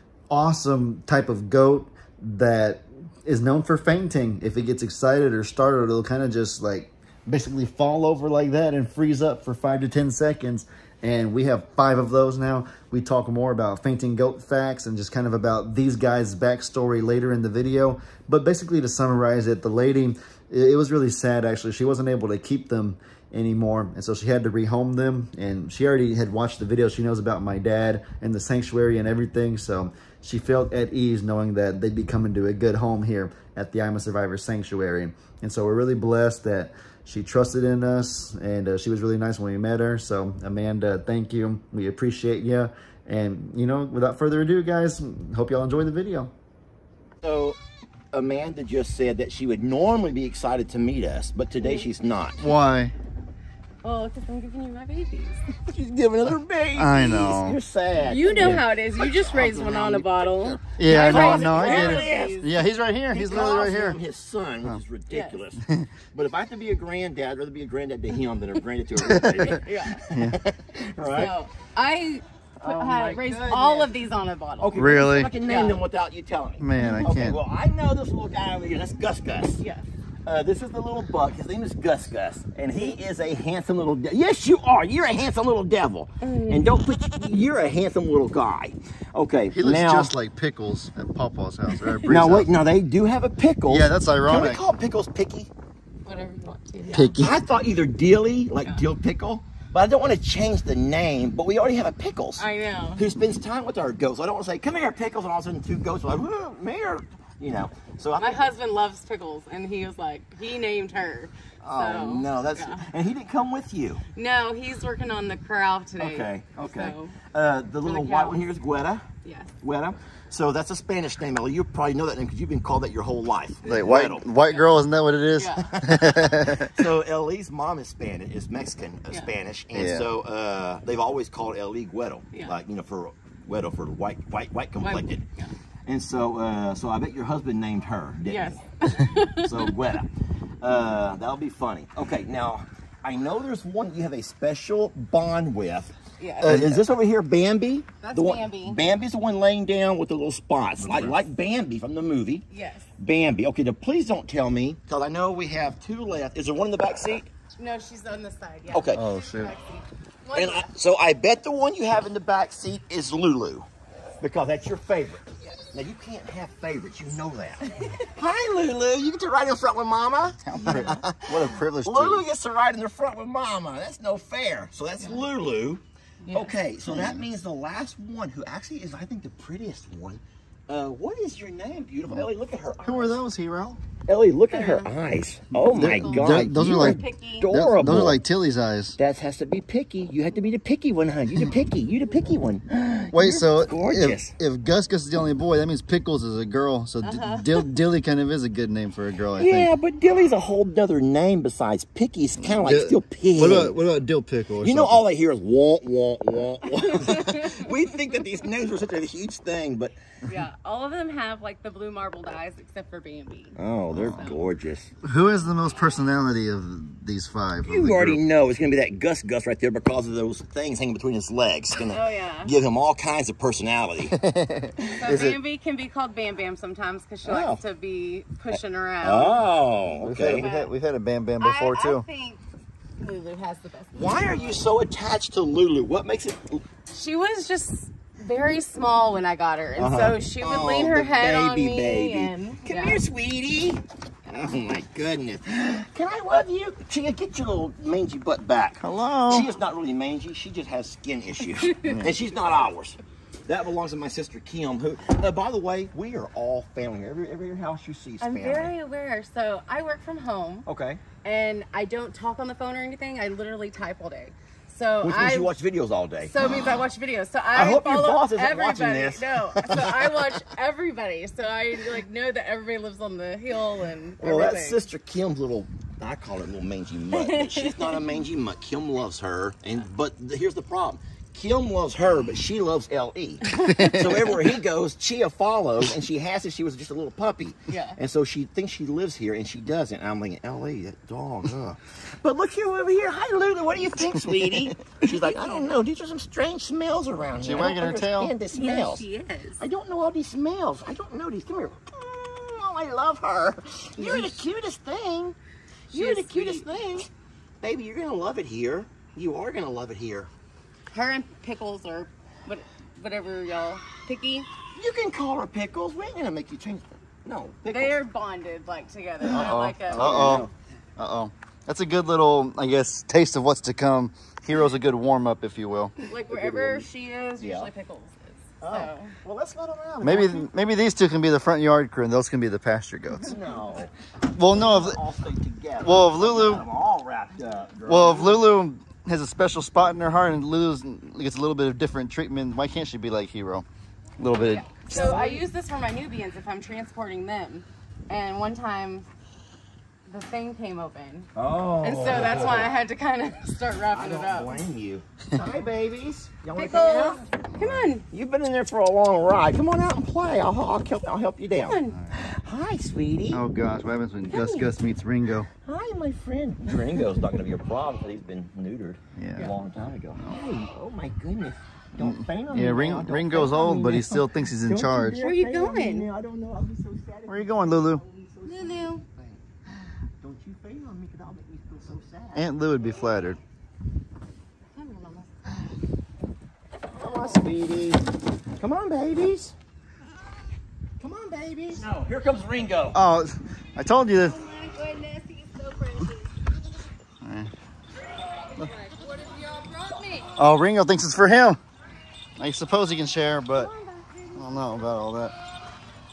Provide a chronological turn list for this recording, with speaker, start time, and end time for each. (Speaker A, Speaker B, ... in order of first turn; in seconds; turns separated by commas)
Speaker A: 0.3-46.3, Speaker B: 47.2-47.6, Speaker B: 48.1-52.4, Speaker A: 52.4-52.9, Speaker C: 53.8-55.4, Speaker B: 55.5-62.5, Speaker A: 56.7-57.6, Speaker C: 58.0-62.5, Speaker A: 60.8-64.0, Speaker B: 63.1-71.3, Speaker C: 65.1-65.4, Speaker A: 65.6-65.9, Speaker A: 69.0-69.5, Speaker C: 69.1-70.0, Speaker A: 70.1-70.4, Speaker C: 71.1-75.8, Speaker B: 72.6-73.9, Speaker B: 74.6-79.6, Speaker A: 74.7-75.3, Speaker A: 76.6-77.4, Speaker C: 76.8-77.1, Speaker C: 79.6-79.8, Speaker B: 80.2-90.1, Speaker C: 86.2-86.7, Speaker A: 89.5-92.5, Speaker C: 91.7-92.1, Speaker B: 92.1-95.5, Speaker A: 93.7-94.6, Speaker C: 96.0-97.2, Speaker B: 96.9-108.4, Speaker A: 96.9-97.3, Speaker C: 102.4-103.0, Speaker C: 108.2-112.9, Speaker B: 111.6-114.0, Speaker C: 114.1-117.2, Speaker B: 116.0-119.0, Speaker C: 117.8-118.4, Speaker C: 119.2-119.5, Speaker B: 119.6-124.3, Speaker A: 123.6-126.8, Speaker C: 125.3-125.7, Speaker B: 125.6-135.2, Speaker A: 129.7-130.1, Speaker C: 134.8-135.5, Speaker B: 135.8-140.1, Speaker C: 138.2-139.7, Speaker B: 140.6-152.4, Speaker C: 146.2-146.6, Speaker A: 146.4-146.8, Speaker C: 148.0-148.8, Speaker A: 150.8-151.2, Speaker C: 152.5-152.9, Speaker B: 153.0-157.3, Speaker C: 157.6-160.7, Speaker B: 158.7-159.0, Speaker A: 158.9-159.5, Speaker B: 160.3-163.7, Speaker B: 164.2-183.2, Speaker A: 170.5-172.2, Speaker C: 170.7-170.9, Speaker C: 176.2-176.6, Speaker A: 176.8-177.2, Speaker A: 182.8-183.8, Speaker B: 184.1-188.2, Speaker C: 184.5-184.9, Speaker A: 185.6-189.0, Speaker C: 185.7-187.5, Speaker B: 189.0-194.3, Speaker A: 193.1-199.7, Speaker C: 197.0-197.7, Speaker B: 199.3-203.8, Speaker A: 202.4-205.0, Speaker B: 204.6-209.9, Speaker C: 206.7-207.7, Speaker C: 210.2-214.4, Speaker B: 213.6-214.9, Speaker A: 213.9-214.3, Speaker A: 215.0-218.2, Speaker B: 217.6-224.2, Speaker C: 221.8-222.5, Speaker A: 224.1-225.4, Speaker C: 224.8-229.5, Speaker B: 227.2-227.6, Speaker B: 228.5-230.5, Speaker A: 230.0-232.0, Speaker C: 230.3-230.7, Speaker C: 231.4-232.4, Speaker C: 233.0-234.7, Speaker B: 233.9-236.6, Speaker C: 236.9-243.0, Speaker B: 239.8-258.7, Speaker A: 248.8-249.5, Speaker C: 251.6-252.0, Speaker A: 251.8-252.1, Speaker C: 258.2-260.7, Speaker B: 260.6-261.0, Speaker C: 261.2-265.5, Speaker B: 265.0-266.8, Speaker C: 266.2-274.8, Speaker B: 267.5-270.4, Speaker B: 274.2-299.1, Speaker C: 277.1-278.2, Speaker A: 283.6-284.4, Speaker C: 287.7-288.0, Speaker A: 294.2-294.6, Speaker C: 295.1-295.7, Speaker A: 297.4-298.3, Speaker C: 297.5-299.6, Speaker B: 299.6-305.4, Speaker C: 304.0-304.4, Speaker C: 305.9-306.7, Speaker B: 305.9-307.1, Speaker B: 307.6-310.3, Speaker C: 310.9-314.5, Speaker B: 314.7-318.0, Speaker C: 317.7-320.5, Speaker B: 319.2-320.5, Speaker A: 319.3-320.5, Speaker A: 321.0-325.9, Speaker C: 326.0-329.1, Speaker B: 326.3-326.9, Speaker B: 327.4-327.7, Speaker B: 328.6-330.4, Speaker A: 330.0-333.4, Speaker B: 333.1-338.5, Speaker A: 334.3-335.0, Speaker A: 335.8-336.6, Speaker A: 337.9-343.6, Speaker A: 344.2-345.4, Speaker C: 344.3-349.1, Speaker C: 350.1-354.6, Speaker B: 351.4-352.8, Speaker B: 353.9-357.3, Speaker C: 356.6-358.1, Speaker A: 357.5-357.9, Speaker B: 358.1-363.4, Speaker C: 361.6-361.9, Speaker A: 361.9-362.2, Speaker A: 363.3-365.5, Speaker B: 364.3-364.7, Speaker B: 365.6-382.4, Speaker A: 369.2-369.5, Speaker A: 370.2-370.5, Speaker A: 372.0-375.2, Speaker C: 375.2-376.1, Speaker A: 377.3-378.0, Speaker C: 378.4-379.0, Speaker A: 382.3-383.4, Speaker C: 384.8-385.7, Speaker B: 386.9-388.0, Speaker B: 388.6-389.5, Speaker B: 391.0-393.0, Speaker A: 392.9-394.4, Speaker C: 394.2-396.3, Speaker A: 397.2-397.5, Speaker C: 398.5-400.3, Speaker A: 400.4-401.6, Speaker A: 402.4-403.7, Speaker C: 403.5-404.4, Speaker A: 404.3-405.3